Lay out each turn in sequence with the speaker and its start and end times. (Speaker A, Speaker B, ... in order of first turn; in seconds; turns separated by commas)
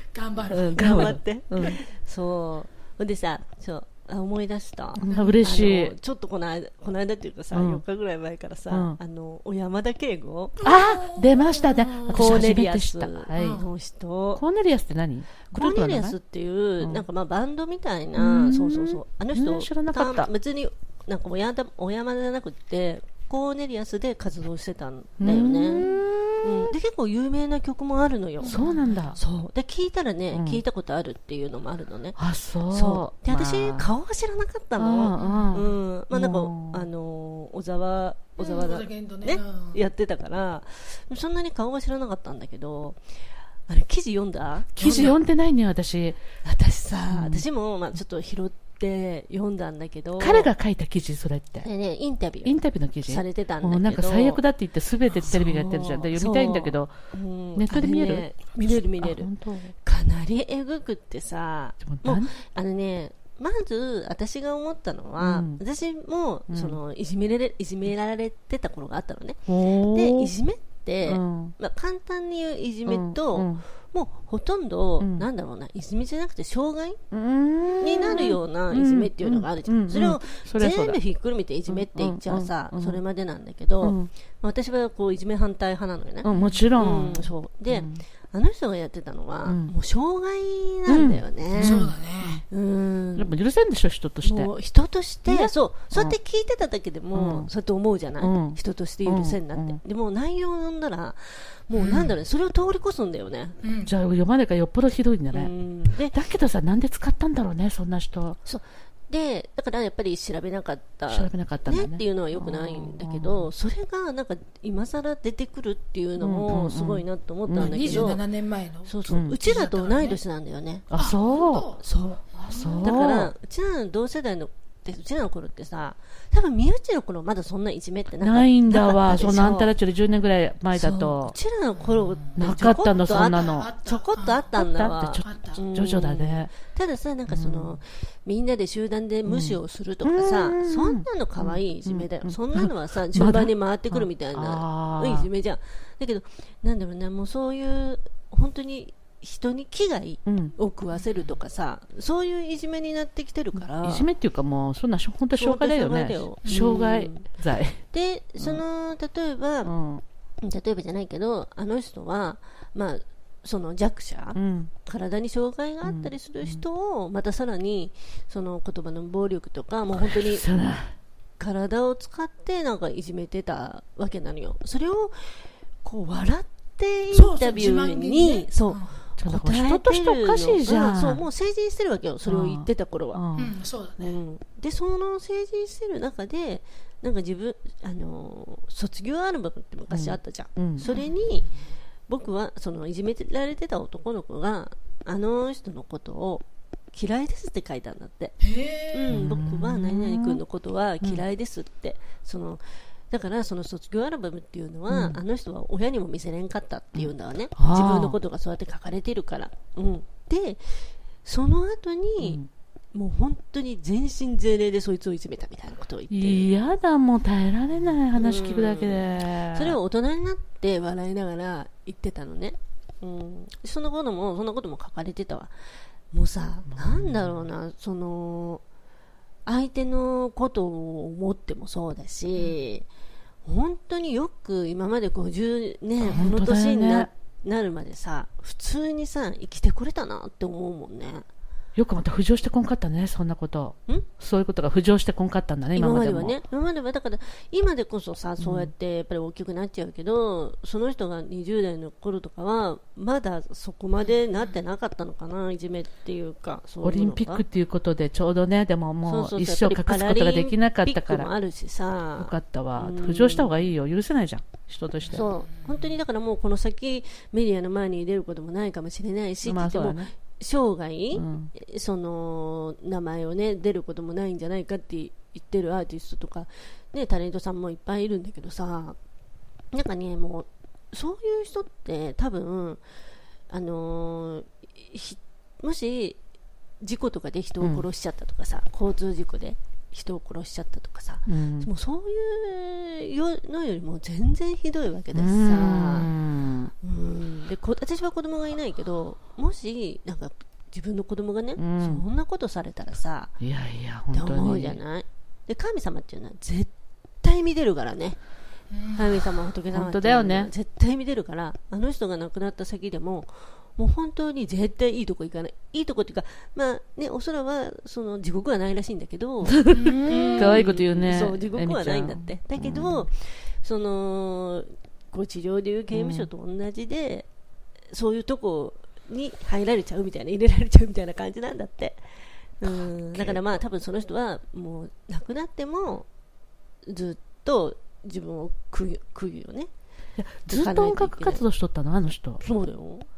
Speaker A: 0.1-1.7, Speaker B: 0.5-10.6, Speaker C: 0.5-1.8, Speaker C: 5.0-5.9, Speaker A: 5.1-5.4, Speaker C: 7.5-7.8, Speaker C: 8.7-9.0, Speaker A: 10.6-12.5, Speaker C: 10.6-13.6, Speaker B: 12.1-14.4, Speaker A: 13.3-13.7, Speaker C: 14.3-16.1, Speaker B: 15.5-25.8, Speaker C: 18.2-20.3, Speaker C: 25.2-26.7, Speaker B: 26.4-28.6, Speaker A: 28.4-29.2, Speaker C: 28.4-29.2, Speaker B: 29.1-32.2, Speaker C: 30.3-30.6, Speaker C: 32.2-33.9, Speaker B: 32.7-43.0, Speaker C: 34.8-36.8, Speaker A: 35.1-35.6, Speaker A: 38.4-39.8, Speaker B: 43.7-45.2, Speaker C: 44.8-46.2, Speaker A: 44.8-45.2, Speaker B: 46.4-50.5, Speaker C: 47.1-47.4, Speaker C: 50.2-51.7, Speaker B: 51.6-54.4, Speaker C: 52.4-56.9, Speaker B: 55.2-59.3, Speaker C: 57.5-58.5, Speaker C: 59.0-59.7, Speaker B: 59.8-77.0, Speaker C: 61.8-62.3, Speaker C: 65.2-65.6, Speaker C: 66.5-66.8, Speaker C: 69.5-70.3, Speaker C: 71.0-71.5, Speaker C: 72.9-73.6, Speaker C: 75.0-75.2, Speaker C: 77.1-81.0, Speaker B: 77.8-91.9, Speaker C: 81.7-83.0, Speaker C: 83.8-84.1, Speaker C: 86.2-88.0, Speaker C: 89.5-89.7, Speaker C: 90.9-92.4, Speaker A: 91.6-92.4, Speaker B: 92.5-93.3, Speaker C: 93.2-94.5, Speaker B: 94.2-103.6, Speaker C: 95.3-96.2, Speaker C: 97.1-97.5, Speaker C: 98.2-99.8, Speaker A: 101.7-102.2, Speaker A: 103.6-103.9, Speaker C: 103.8-105.5, Speaker B: 105.3-106.1, Speaker C: 106.1-108.4, Speaker B: 108.4-118.2, Speaker C: 111.1-113.5, Speaker C: 116.2-118.2, Speaker A: 117.5-120.2, Speaker B: 118.8-120.9, Speaker C: 119.1-119.3, Speaker C: 120.9-121.7, Speaker A: 120.9-123.1, Speaker B: 121.8-129.7, Speaker C: 122.5-123.3, Speaker C: 128.2-131.3, Speaker A: 128.7-129.5, Speaker B: 130.8-154.1, Speaker A: 131.8-134.5, Speaker C: 132.3-133.7, Speaker C: 134.5-136.5, Speaker A: 135.2-135.6, Speaker C: 137.3-137.8, Speaker C: 139.3-145.3, Speaker C: 150.2-150.5, Speaker C: 153.8-157.8, Speaker B: 155.3-157.3, Speaker A: 156.4-156.7, Speaker B: 157.9-159.7, Speaker C: 159.6-160.0, Speaker B: 160.4-170.5, Speaker C: 164.3-164.7, Speaker C: 165.8-166.6, Speaker C: 170.0-170.9, Speaker B: 171.4-183.2, Speaker A: 177.1-178.9, Speaker C: 179.2-181.2, Speaker C: 182.2-183.5, Speaker A: 183.4-184.1, Speaker B: 184.0-191.5, Speaker C: 189.9-190.8, Speaker A: 190.8-191.3, Speaker B: 192.1-198.3, Speaker A: 198.4-199.2, Speaker B: 198.9-212.4, Speaker C: 199.1-200.4, Speaker C: 204.9-205.2, Speaker C: 206.9-208.2, Speaker C: 212.2-212.5, Speaker B: 212.9-216.5, Speaker C: 216.1-219.8, Speaker B: 218.1-225.5, Speaker B: 226.1-228.6, Speaker C: 226.7-227.4, Speaker B: 229.4-232.9, Speaker B: 233.4-241.2, Speaker C: 236.0-237.1, Speaker C: 241.8-246.3, Speaker B: 245.7-257.4, Speaker C: 248.4-248.7, Speaker C: 256.8-261.3, Speaker B: 259.0-263.6, Speaker C: 262.2-265.3, Speaker A: 265.1-265.8, Speaker B: 265.1-279.0, Speaker C: 269.4-270.1, Speaker C: 271.1-271.5, Speaker B: 279.7-282.8, Speaker B: 283.5-286.2, Speaker B: 286.8-296.1, Speaker C: 291.2-291.7, Speaker C: 295.1-296.7, Speaker B: 296.8-303.3, Speaker C: 301.6-302.0, Speaker C: 303.4-304.8, Speaker B: 304.1-306.7, Speaker B: 307.2-308.2, Speaker A: 308.7-309.2, Speaker B: 308.9-327.3, Speaker C: 309.7-310.5, Speaker C: 319.5-323.0, Speaker A: 319.7-320.8, Speaker C: 325.9-326.3, Speaker B: 327.9-332.0, Speaker B: 332.6-336.1, Speaker C: 332.6-333.4, Speaker B: 336.9-339.7, Speaker C: 340.2-342.4, Speaker B: 340.5-341.4, Speaker B: 342.4-343.1